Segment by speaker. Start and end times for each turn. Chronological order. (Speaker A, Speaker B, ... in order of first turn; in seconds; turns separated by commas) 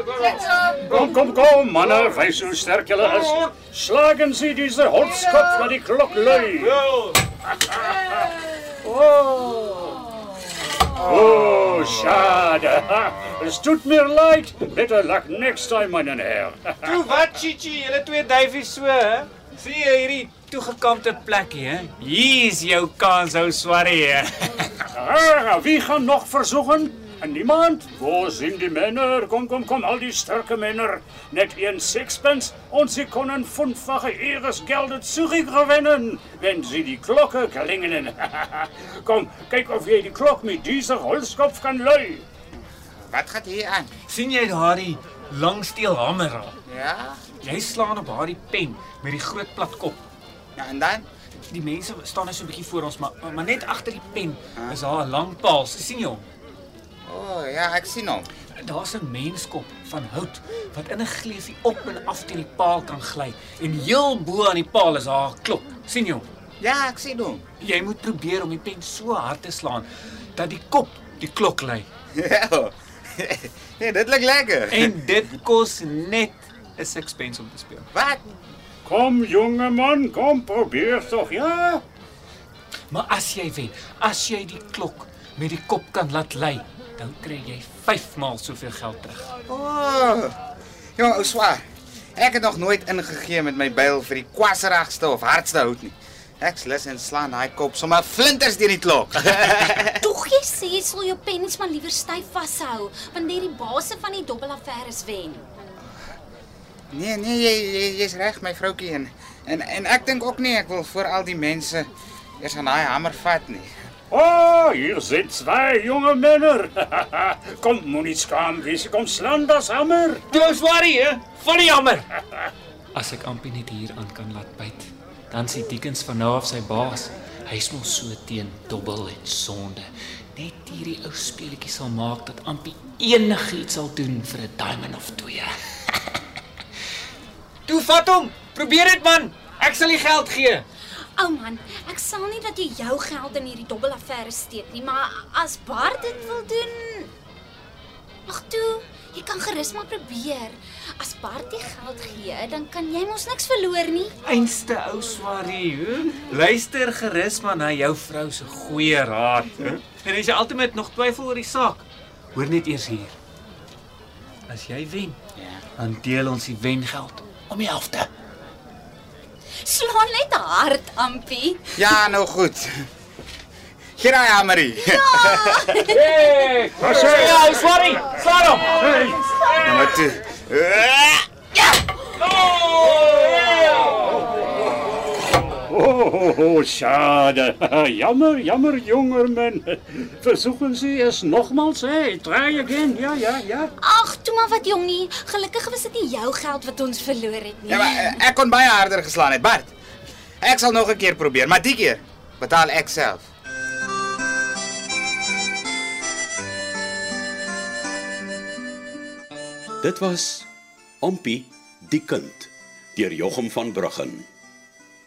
Speaker A: 0.8-6.9, Speaker A: 8.8-9.8, Speaker A: 11.0-16.8, Speaker B: 16.8-24.6, Speaker A: 24.9-42.2, Speaker C: 42.9-43.9, Speaker B: 44.1-46.5, Speaker C: 46.6-47.2, Speaker B: 47.4-50.0, Speaker C: 50.6-51.1, Speaker B: 51.5-56.2, Speaker C: 57.1-58.3, Speaker B: 58.5-66.3, Speaker C: 66.6-67.4, Speaker B: 67.6-71.9, Speaker C: 72.2-75.0, Speaker B: 74.7-77.9, Speaker C: 77.9-78.2, Speaker A: 78.8-81.8, Speaker B: 82.9-89.3, Speaker C: 89.5-90.3, Speaker C: 91.0-91.6, Speaker C: 92.2-100.0, Speaker D: 100.0-105.5, Speaker C: 106.9-113.7, Speaker A: 114.1-120.2, Speaker B: 120.3-122.1, Speaker B: 122.9-135.5, Speaker B: 137.7-140.6, Speaker D: 141.2-147.1, Speaker D: 148.3-154.1, Speaker B: 154.2-163.1, Speaker B: 164.5-165.2, Speaker C: 165.3-165.6, Speaker B: 165.8-168.1, Speaker D: 169.6-172.0, Speaker C: 171.8-172.9, Speaker C: 174.0-175.6, Speaker D: 174.8-176.1, Speaker B: 176.1-178.9, Speaker A: 176.7-177.5, Speaker A: 178.8-179.2, Speaker C: 179.5-181.2, Speaker A: 185.7-193.7, Speaker D: 193.8-198.2, Speaker C: 197.7-199.7, Speaker C: 200.4-203.3, Speaker E: 209.8-210.5, Speaker E: 211.0-214.2